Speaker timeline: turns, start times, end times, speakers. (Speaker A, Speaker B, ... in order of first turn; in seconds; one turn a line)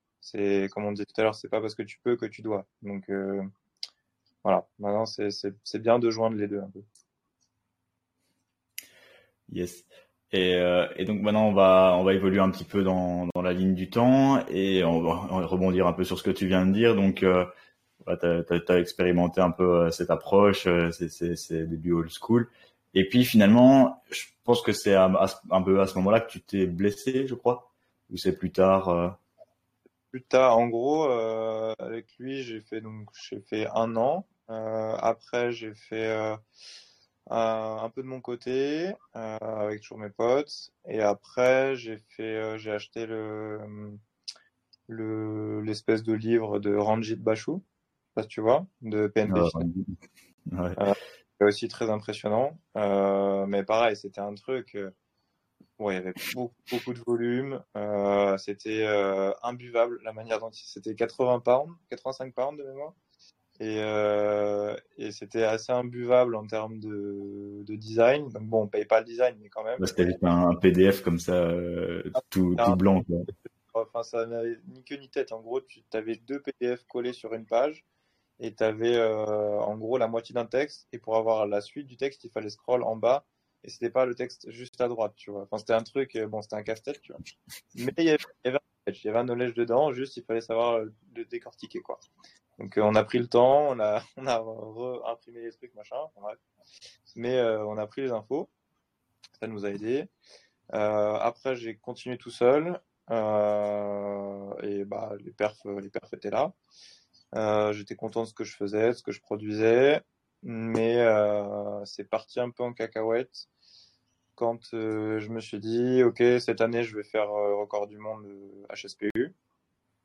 Speaker A: 0.2-3.5
Speaker A: 4.4-6.8
Speaker B: 9.5-17.5
Speaker B: 18.0-29.2
Speaker A: 30.1-36.4
Speaker A: 37.3-44.0
Speaker A: 44.9-47.6
Speaker A: 48.1-49.6
Speaker B: 49.3-49.9
Speaker B: 50.5-50.8
Speaker A: 50.8-54.9
Speaker A: 55.8-63.0
Speaker A: 63.6-69.9
Speaker B: 69.8-73.3
Speaker A: 73.6-77.8
Speaker A: 78.4-87.2
Speaker A: 87.8-92.0
Speaker A: 92.6-96.4
Speaker A: 97.1-98.5
Speaker A: 99.4-100.1
Speaker A: 100.7-106.5
Speaker A: 107.3-113.5
Speaker A: 114.4-119.3